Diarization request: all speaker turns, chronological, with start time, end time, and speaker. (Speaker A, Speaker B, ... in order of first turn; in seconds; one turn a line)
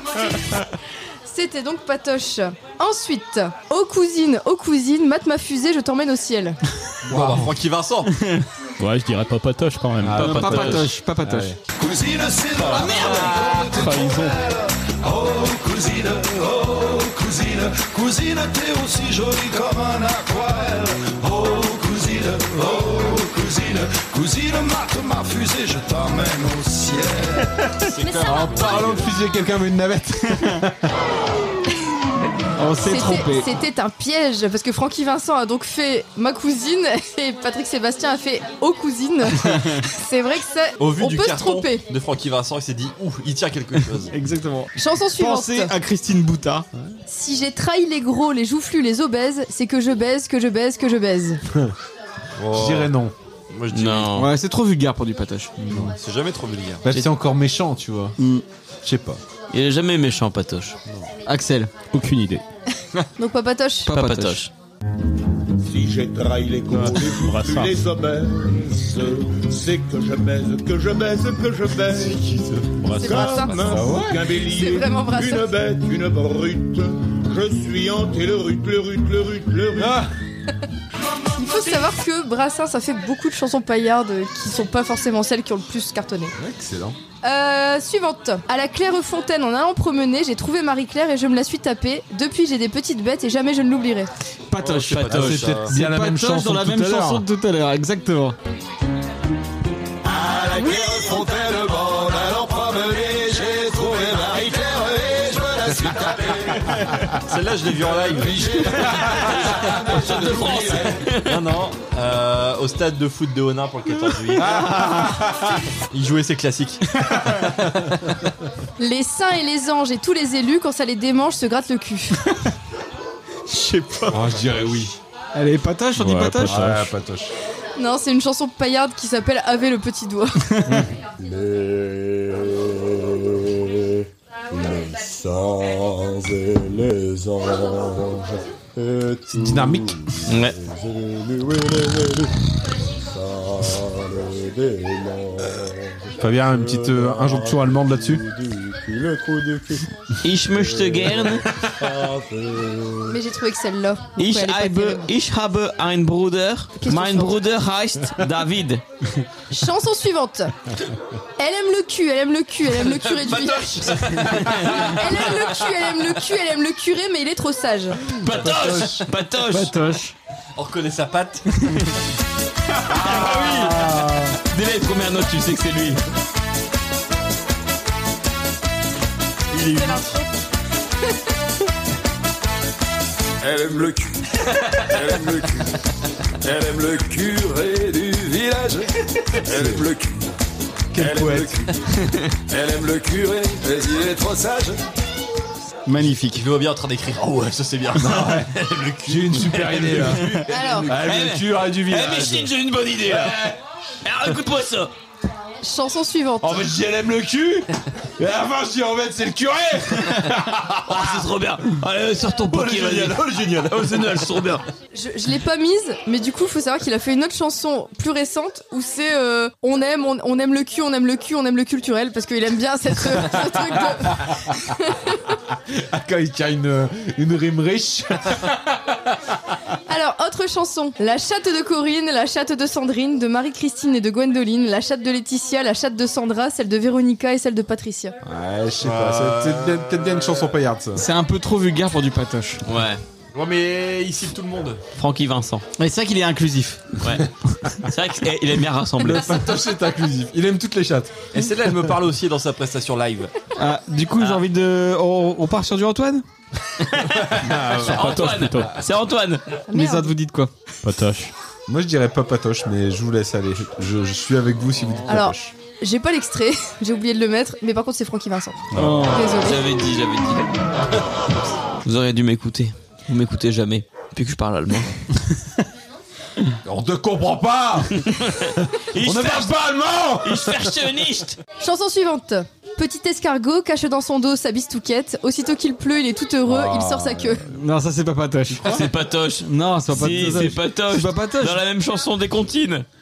Speaker A: 1.3-6.6
Speaker B: 7.1-8.1
Speaker C: 7.1-7.5
Speaker D: 8.8-10.7
Speaker C: 10.0-11.6
Speaker E: 10.2-10.9
Speaker F: 10.2-11.6
Speaker G: 11.7-27.5
Speaker F: 12.7-13.6
Speaker D: 13.7-14.4
Speaker B: 27.8-29.1
Speaker A: 28.0-28.7
Speaker C: 28.2-30.9
Speaker F: 32.6-33.5
Speaker A: 32.8-41.8
Speaker F: 39.5-39.8
Speaker B: 40.8-44.1
Speaker F: 44.1-46.7
Speaker A: 44.8-45.7
Speaker A: 47.1-51.4
Speaker C: 51.5-51.8
Speaker B: 52.4-53.0
Speaker C: 52.5-53.1
Speaker B: 53.5-54.1
Speaker E: 53.7-54.3
Speaker F: 54.1-55.5
Speaker C: 55.6-56.0
Speaker B: 55.8-56.8
Speaker C: 56.8-58.2
Speaker F: 58.2-58.4
Speaker C: 58.8-59.2
Speaker E: 59.5-60.8
Speaker F: 61.3-61.7
Speaker D: 61.9-62.4
Speaker A: 63.2-63.9
Speaker F: 63.9-64.4
Speaker E: 63.9-64.5
Speaker D: 66.7-67.8
Speaker C: 71.9-74.3
Speaker A: 72.9-75.6
Speaker D: 73.0-73.5
Speaker C: 79.8-80.1
Speaker A: 81.3-86.3
Speaker C: 86.4-87.0
Speaker A: 87.2-94.1
Speaker F: 94.5-95.1
Speaker B: 94.6-95.7
Speaker E: 94.7-95.5
Speaker C: 95.1-97.2
Speaker F: 95.7-98.4
Speaker G: 100.0-106.7
Speaker B: 107.2-108.9
Speaker G: 108.1-111.0
Speaker C: 108.7-110.3
Speaker E: 109.2-111.5
Speaker B: 111.1-114.9
Speaker C: 114.4-115.6
Speaker B: 115.9-117.5
Speaker A: 118.8-122.2
Speaker F: 123.5-124.3
Speaker C: 124.1-125.0
Speaker F: 125.3-126.7
Speaker D: 126.0-126.9
Speaker C: 126.0-127.3
Speaker A: 127.8-130.4
Speaker F: 130.6-130.8
Speaker G: 131.2-133.4
Speaker G: 134.5-139.9
Speaker C: 139.3-140.1
Speaker E: 140.3-140.6
Speaker G: 140.6-142.3
Speaker G: 143.1-149.8
Speaker C: 146.2-148.2
Speaker E: 150.2-151.5
Speaker G: 150.7-151.3
Speaker G: 151.8-153.1
Speaker A: 153.1-155.1
Speaker E: 154.2-158.8
Speaker A: 156.8-157.4
Speaker A: 159.5-160.5
Speaker A: 161.4-164.0
Speaker B: 162.9-165.4
Speaker E: 164.2-164.9
Speaker A: 164.9-168.0
Speaker C: 168.2-169.1
Speaker E: 168.2-169.8
Speaker F: 169.5-170.2
Speaker B: 170.6-171.5
Speaker E: 172.9-173.9
Speaker C: 172.9-174.4
Speaker E: 174.5-176.0
Speaker F: 179.5-180.0
Speaker A: 179.8-180.2
Speaker G: 183.4-184.2
Speaker G: 184.7-185.8
Speaker G: 186.4-190.3
Speaker C: 189.4-189.9
Speaker C: 190.9-191.7
Speaker G: 190.9-191.7
Speaker G: 192.5-194.8
Speaker F: 195.9-196.5
Speaker B: 196.0-200.9
Speaker C: 198.0-198.5
Speaker C: 199.1-203.6
Speaker A: 200.5-200.9
Speaker E: 200.9-203.4
Speaker E: 204.1-204.9
Speaker A: 205.6-206.7
Speaker C: 206.4-211.3
Speaker E: 210.9-214.6
Speaker B: 212.5-214.5
Speaker A: 214.9-225.2
Speaker C: 223.9-224.3
Speaker C: 225.7-229.2
Speaker A: 229.9-238.2
Speaker C: 238.2-241.1
Speaker B: 238.8-240.6
Speaker F: 240.9-242.6
Speaker E: 242.7-243.0
Speaker B: 243.3-244.8
Speaker E: 245.0-245.7
Speaker F: 245.8-246.9
Speaker E: 247.0-247.3
Speaker E: 247.8-249.4
Speaker C: 249.0-251.2
Speaker B: 251.3-253.3
Speaker F: 253.6-256.2
Speaker E: 256.8-259.6
Speaker C: 257.3-258.4
Speaker D: 257.9-258.8
Speaker A: 259.7-260.1
Speaker F: 259.7-260.5
Speaker D: 260.8-261.3
Speaker C: 261.7-265.5
Speaker A: 265.1-269.6
Speaker F: 268.7-269.3
Speaker D: 268.8-269.1
Speaker E: 269.3-270.5
Speaker E: 271.8-274.9
Speaker C: 276.6-280.8
Speaker E: 278.0-279.6
Speaker E: 280.2-281.4
Speaker A: 281.6-287.4
Speaker C: 286.4-287.6
Speaker F: 287.5-288.8
Speaker C: 288.5-288.9
Speaker E: 288.6-292.9
Speaker F: 289.4-291.6